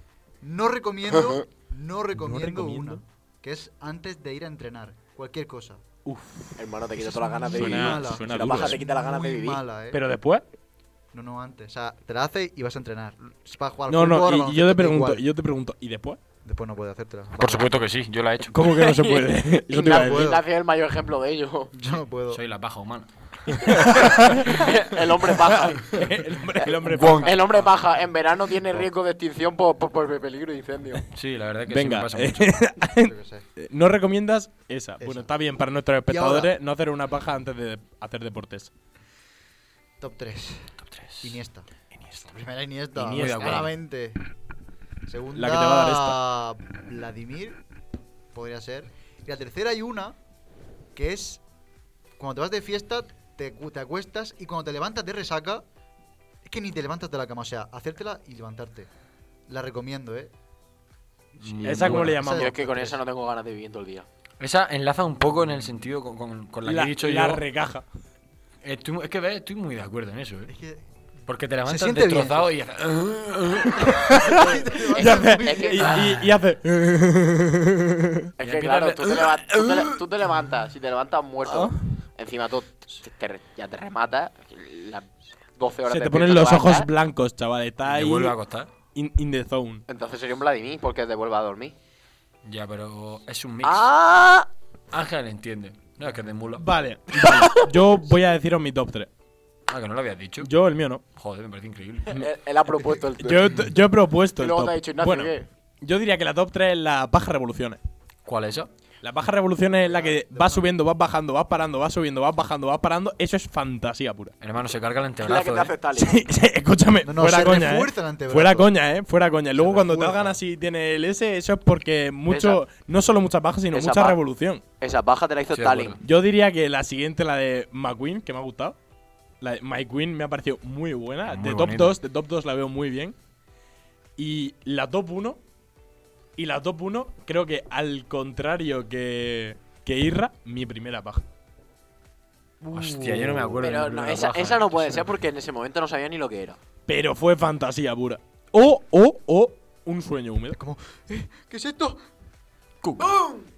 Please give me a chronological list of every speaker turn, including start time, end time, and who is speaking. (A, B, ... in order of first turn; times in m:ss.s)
0:00.4-0:05.8 A
0:02.2-0:03.0 B
0:06.1-0:06.6 B
0:06.6-0:09.6 C
0:07.0-0:10.0 A
0:07.5-0:08.8 B
0:09.9-0:10.4 B
0:11.1-0:15.2 A
0:13.9-0:16.2 B
0:16.4-0:17.8 A
0:17.4-0:18.8 D
0:18.5-0:20.3 B
0:18.7-0:21.7 C
0:19.8-0:20.4 A
0:21.7-0:22.4 A
0:22.3-0:24.6 D
0:23.5-0:24.6 B
0:23.8-0:26.0 C
0:25.6-0:27.4 B
0:26.6-0:31.0 C
0:26.9-0:27.7 D
0:31.1-0:32.6 D
0:31.7-0:38.7 B
0:33.0-0:33.4 A
0:35.0-0:35.3 A
0:36.1-0:36.5 A
0:40.0-0:41.7 A
0:40.9-0:41.4 D
0:42.0-0:42.4 D
0:42.3-0:44.2 A
0:43.0-0:43.7 D
0:43.0-0:43.7 B
0:45.1-0:47.6 A
0:45.3-0:46.2 B
0:48.3-0:50.2 A
0:51.0-0:51.4 A
0:52.2-0:55.6 A
0:56.4-0:58.9 A
0:59.5-1:00.3 A
1:01.4-1:02.2 D
1:01.4-1:03.0 A
1:01.6-1:02.5 B
1:02.2-1:04.1 C
1:04.4-1:07.4 D
1:06.7-1:07.9 B
1:08.6-1:10.5 D
1:10.5-1:10.8 A
1:11.3-1:14.3 D
1:11.6-1:12.5 A
1:13.9-1:18.3 B
1:14.1-1:16.1 A
1:14.9-1:16.1 C
1:18.4-1:26.9 C
1:18.4-1:20.0 D
1:21.5-1:21.8 B
1:25.9-1:28.3 B
1:27.8-1:28.7 D
1:29.0-1:29.8 B
1:29.9-1:31.8 C
1:32.4-1:33.9 D
1:33.6-1:34.5 C
1:34.9-1:36.7 D
1:36.6-1:39.1 B
1:37.2-1:37.7 C
1:39.7-1:40.5 D
1:40.4-1:41.0 B
1:41.2-1:42.3 D
1:42.1-1:43.7 C
1:43.2-1:47.8 B
1:44.4-1:45.5 C
1:48.3-1:48.7 D
1:49.0-1:54.3 B
1:54.4-1:55.7 D
1:55.2-1:56.2 C
1:56.0-2:04.6 B
1:57.0-1:58.7 A
1:59.6-2:00.4 A
2:02.3-2:02.6 C
2:03.7-2:04.2 C
2:04.8-2:06.0 C
2:05.5-2:06.0 D
2:06.0-2:08.8 B
2:09.4-2:13.2 B
2:11.3-2:12.0 D
2:14.2-2:15.4 B
2:16.4-2:21.2 B
2:22.7-2:25.1 D
2:23.6-2:26.6 C
2:26.9-2:30.6 B
2:30.6-2:32.0 A
2:32.8-2:33.1 D
2:33.0-2:33.5 C